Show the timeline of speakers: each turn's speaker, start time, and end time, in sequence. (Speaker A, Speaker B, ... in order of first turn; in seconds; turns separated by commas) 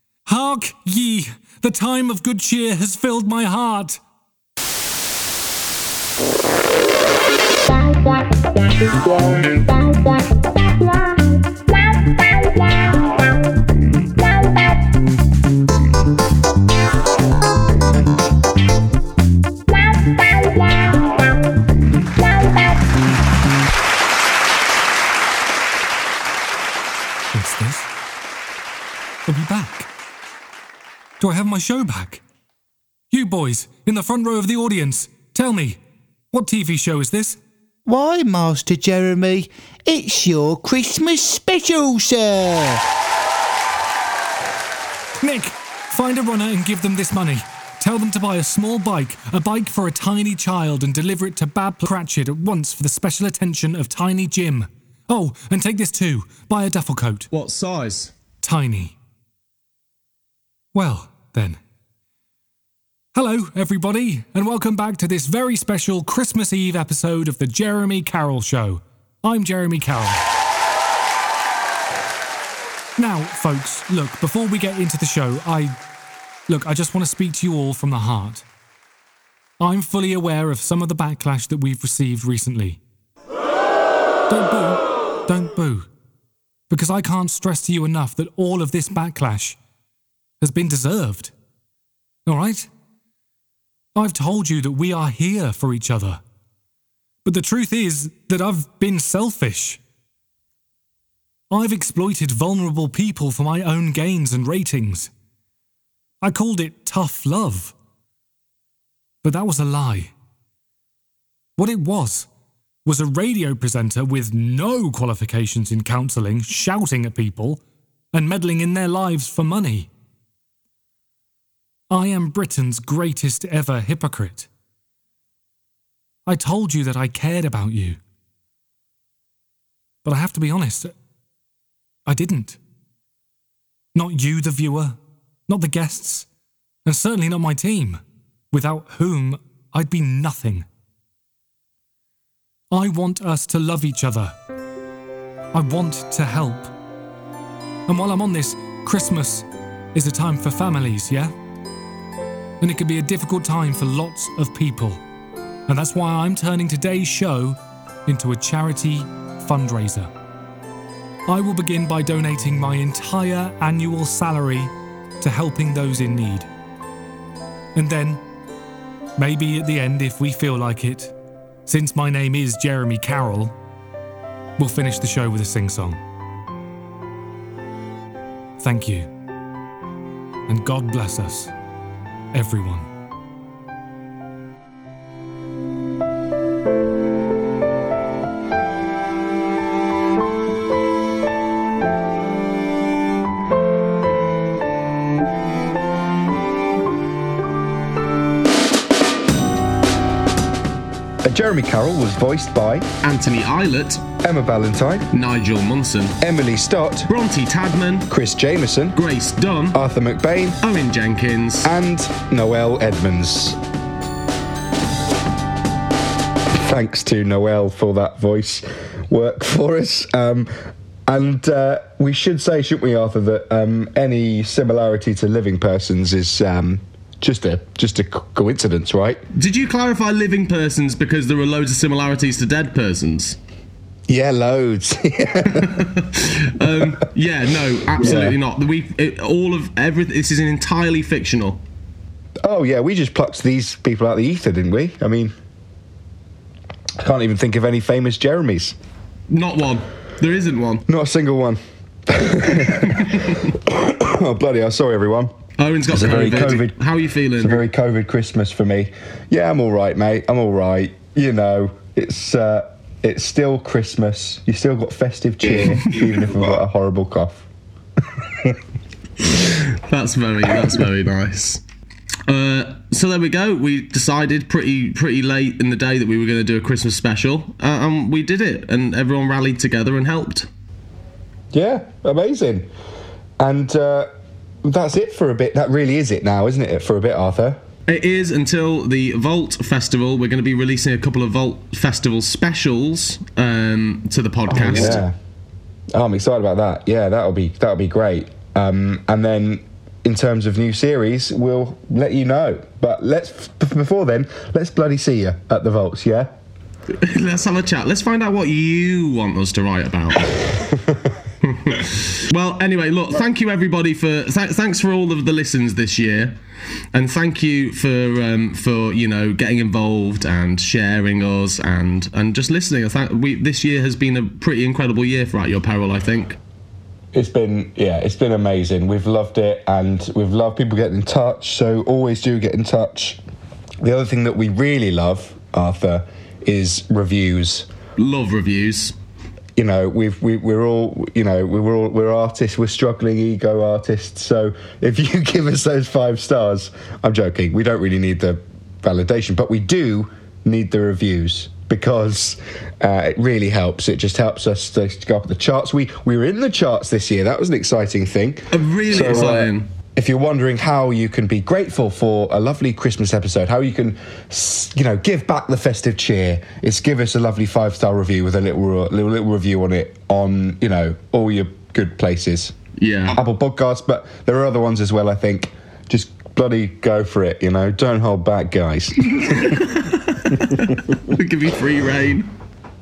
Speaker A: 0.2-4.0, Speaker A: 27.3-27.9, Speaker A: 29.3-29.9, Speaker A: 31.2-32.2, Speaker A: 33.1-35.8, Speaker A: 36.3-37.4, Speaker B: 37.9-42.8, Speaker A: 45.2-57.3, Speaker C: 57.3-58.1, Speaker A: 58.4-59.0, Speaker A: 60.7-61.6, Speaker A: 63.1-70.2, Speaker A: 73.0-75.8, Speaker A: 76.5-78.4, Speaker A: 79.6-82.8, Speaker A: 84.3-85.9, Speaker A: 86.7-89.6, Speaker A: 90.4-91.3, Speaker A: 92.2-92.7, Speaker A: 93.9-96.2, Speaker A: 97.2-99.8, Speaker A: 101.5-105.1, Speaker A: 106.2-107.7, Speaker A: 109.2-110.1, Speaker A: 111.6-112.3, Speaker A: 112.8-117.6, Speaker A: 118.1-119.9, Speaker A: 121.9-124.5, Speaker A: 126.2-128.0, Speaker A: 130.0-130.9, Speaker A: 132.1-132.6, Speaker A: 133.9-136.3, Speaker A: 136.8-138.0, Speaker A: 138.5-140.7, Speaker A: 142.7-144.3, Speaker A: 145.5-146.7, Speaker A: 147.9-151.3, Speaker A: 152.6-155.0, Speaker A: 155.7-160.1, Speaker A: 161.3-166.5, Speaker A: 167.7-168.2, Speaker A: 169.2-171.1, Speaker A: 171.7-173.5, Speaker A: 174.6-176.0, Speaker A: 178.6-179.1, Speaker A: 180.5-181.5, Speaker A: 182.3-182.9, Speaker D: 201.2-202.9, Speaker C: 203.0-204.0, Speaker D: 204.2-205.1, Speaker C: 205.1-206.2, Speaker D: 206.2-207.1, Speaker C: 207.1-208.1, Speaker D: 208.1-208.9, Speaker C: 208.9-209.8, Speaker D: 209.7-210.6, Speaker C: 210.6-211.7, Speaker D: 211.6-213.6, Speaker D: 216.6-220.5, Speaker D: 221.1-229.2, Speaker C: 229.3-233.4, Speaker D: 234.1-235.8, Speaker C: 235.6-241.6, Speaker D: 237.9-238.4, Speaker D: 242.4-245.3, Speaker D: 247.0-248.7, Speaker C: 249.3-250.8, Speaker D: 250.9-253.1, Speaker C: 253.0-253.4, Speaker D: 253.7-255.3, Speaker C: 255.6-257.6, Speaker D: 255.9-256.7, Speaker D: 257.4-267.4, Speaker C: 265.5-265.8, Speaker C: 269.9-271.6, Speaker C: 272.3-280.5, Speaker D: 281.5-282.7, Speaker D: 283.4-284.1, Speaker D: 284.6-287.6, Speaker C: 287.9-295.1, Speaker D: 294.5-295.1, Speaker D: 295.9-306.3, Speaker C: 307.0-310.5, Speaker C: 311.4-316.4, Speaker C: 316.9-326.4, Speaker D: 327.1-333.2, Speaker D: 333.8-337.7, Speaker C: 338.0-338.9, Speaker D: 339.6-372.5, Speaker C: 358.5-359.7, Speaker C: 372.8-373.2, Speaker D: 373.1-379.6, Speaker C: 379.3-382.3